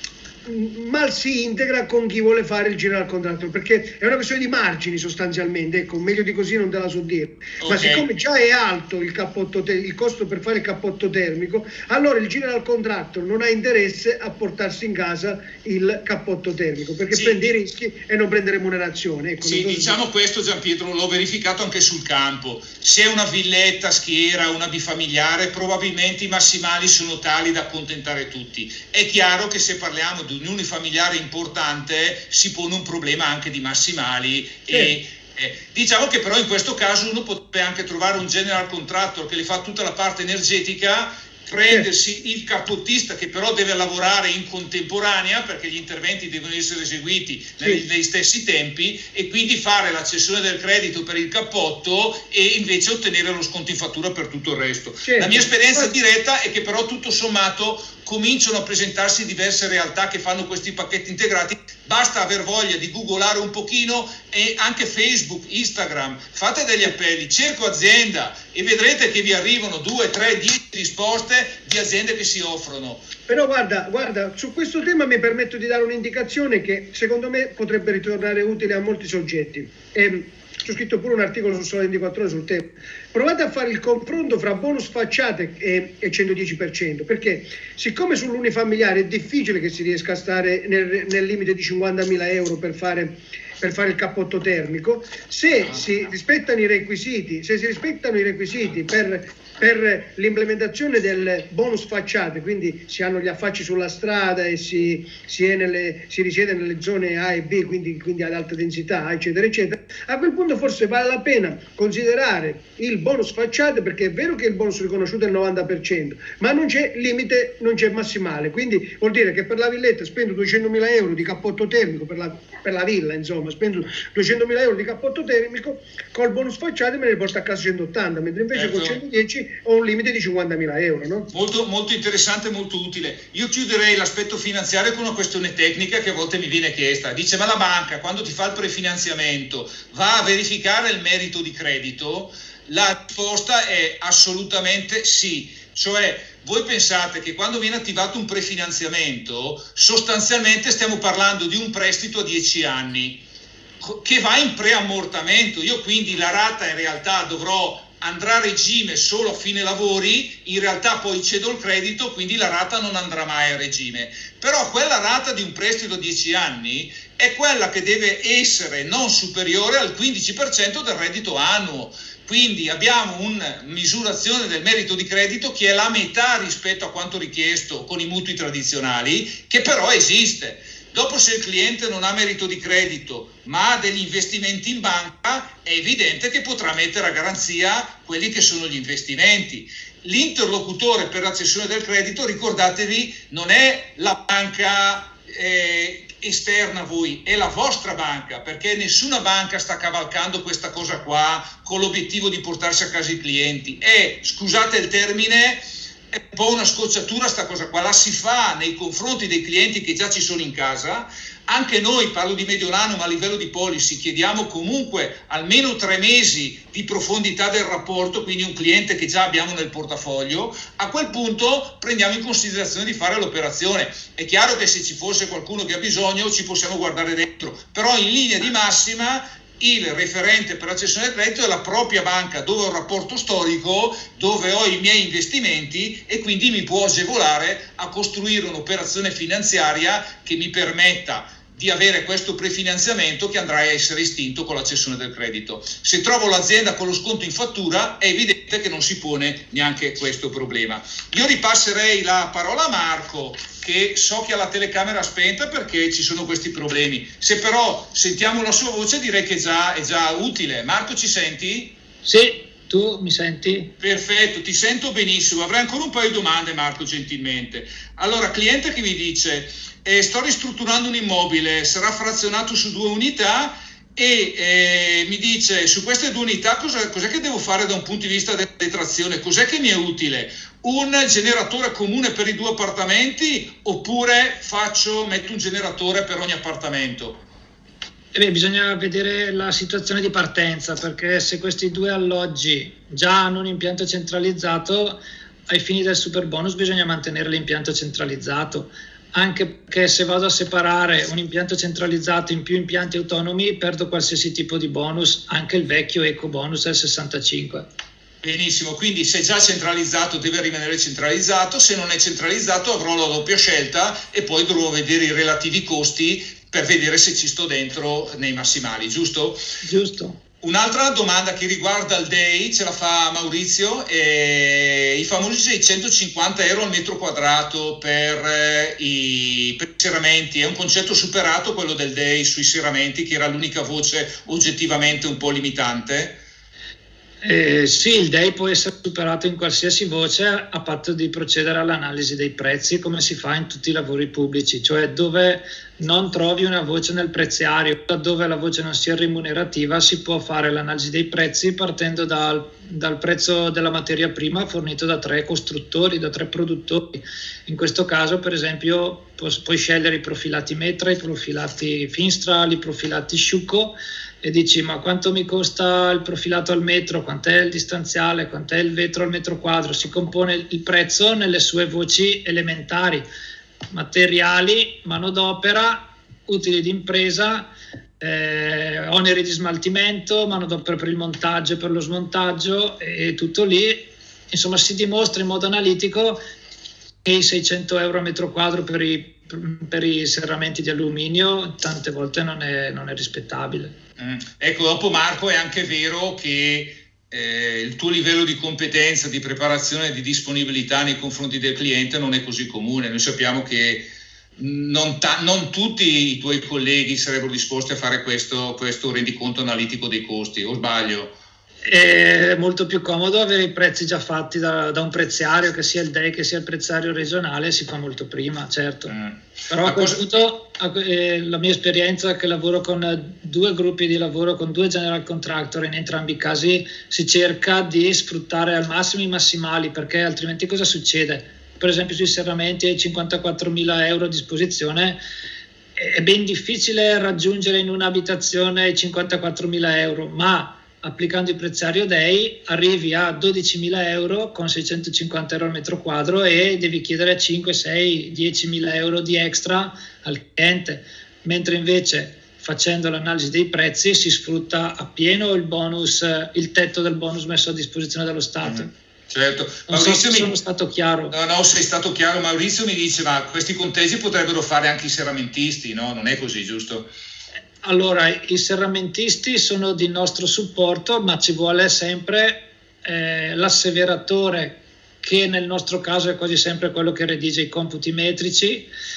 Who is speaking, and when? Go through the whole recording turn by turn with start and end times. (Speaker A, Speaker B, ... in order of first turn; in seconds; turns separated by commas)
Speaker A: 0.4-20.0, Speaker B: 7.6-8.1, Speaker B: 17.1-17.5, Speaker B: 19.4-73.1, Speaker A: 55.0-55.9, Speaker A: 73.3-131.3, Speaker B: 128.5-129.0, Speaker B: 131.3-153.2, Speaker B: 153.8-261.7, Speaker C: 262.0-263.7, Speaker B: 263.8-287.2, Speaker C: 288.1-307.6, Speaker B: 308.2-319.4, Speaker C: 319.6-320.2, Speaker B: 320.4-336.2, Speaker C: 337.2-373.0, Speaker C: 373.7-386.2, Speaker C: 387.0-393.7, Speaker B: 394.0-411.1, Speaker C: 411.6-418.9, Speaker B: 418.9-420.0, Speaker C: 419.5-435.0, Speaker C: 435.8-458.7, Speaker B: 458.4-460.3, Speaker C: 459.7-461.1, Speaker B: 461.1-466.9, Speaker C: 467.6-478.7